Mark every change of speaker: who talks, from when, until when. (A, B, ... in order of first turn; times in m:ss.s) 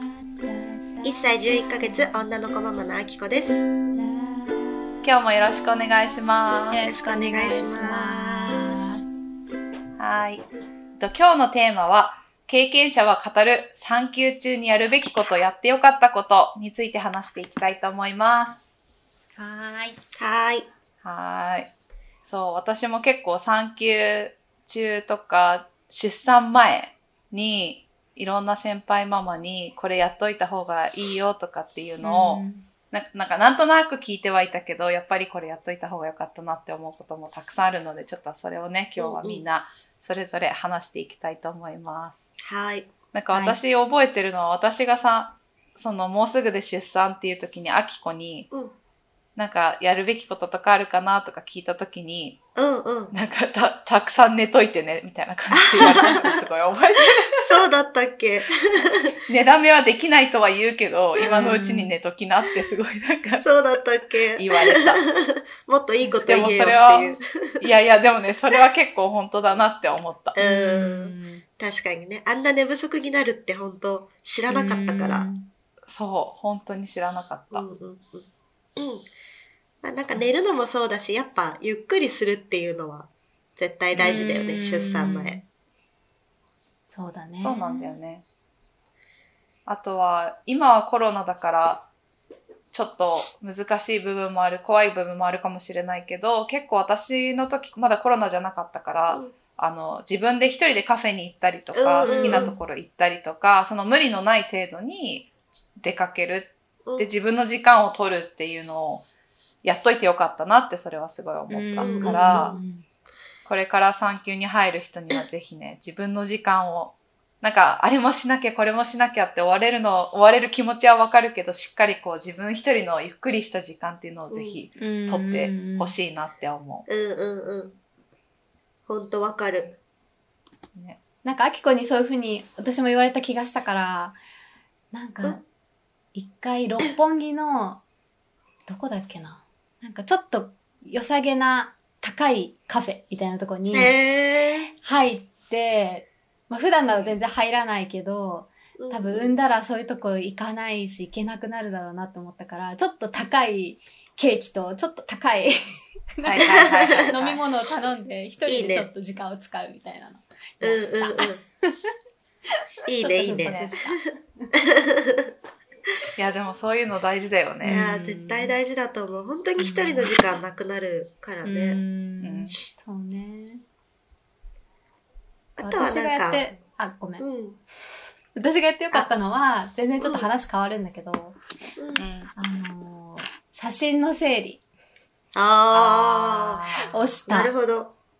0:01.0-0:03.6 A
0:05.0-0:06.8 B
0:06.7-0:09.0 C
0:06.8-0:08.8 A
0:10.0-0:10.4 B
0:11.0-0:18.7 B
0:19.4-0:20.0 C
0:20.2-0:20.7 A
0:21.0-0:21.7 B
0:22.2-0:42.2 B
0:32.0-0:32.6 C
0:39.0-0:39.4 A
0:42.4-0:42.9 A
0:43.1-0:48.5 B
0:43.3-0:43.6 C
0:48.5-0:48.8 A
0:49.4-0:52.4 B
0:52.6-0:53.1 A
0:53.1-0:57.6 B
0:55.5-0:56.1 A
0:57.4-0:59.0 A
0:59.3-1:03.4 B
1:01.2-1:01.6 A
1:01.2-1:02.0 C
1:03.4-1:07.2 A
1:04.4-1:05.1 B
1:06.0-1:06.7 C
1:06.2-1:10.4 B
1:10.4-1:15.3 A
1:10.4-1:11.4 C
1:14.5-1:15.5 C
1:15.9-1:17.7 B
1:17.5-1:19.1 A
1:19.8-1:25.4 A
1:24.0-1:25.4 C
1:26.9-1:27.9 C
1:27.4-1:28.2 B
1:29.6-1:31.9 B
1:32.7-1:49.0 B
1:39.1-1:39.4 A
1:41.7-1:42.6 A
1:42.0-1:42.5 C
1:46.8-1:47.1 A
1:49.6-1:52.5 B
1:51.5-1:52.8 C
1:51.8-1:52.6 A
1:53.4-2:06.8 B
2:04.3-2:04.6 A
2:04.8-2:06.0 C
2:06.9-2:07.8 A
2:08.9-2:09.8 A
2:10.7-2:11.0 B
2:11.2-2:14.2 C
2:14.9-2:15.4 C
2:16.1-2:17.8 C
2:18.7-2:24.0 C
2:23.7-2:24.7 A
2:24.7-2:36.6 C
2:26.9-2:27.2 B
2:28.8-2:29.4 A
2:36.2-2:37.4 B
2:36.4-2:37.1 A
2:37.1-2:41.8 C
2:38.4-2:38.9 A
2:40.6-2:41.4 A
2:42.9-2:44.0 A
2:43.0-2:44.5 C
2:43.2-2:43.7 B
2:44.8-2:45.3 A
2:46.2-2:48.0 B
2:47.6-2:48.5 C
2:47.7-2:51.8 A
2:49.6-2:50.2 C
2:51.4-2:53.6 C
2:52.2-2:52.5 B
2:55.6-2:56.6 A
2:55.6-2:57.2 C
2:57.2-2:57.6 A
2:58.4-3:01.4 C
3:00.0-3:00.3 A
3:01.8-3:02.0 A
3:01.9-3:02.3 B
3:02.4-3:04.6 C
3:05.3-3:06.6 A
3:05.7-3:07.2 B
3:06.8-3:07.5 C
3:07.3-3:07.9 A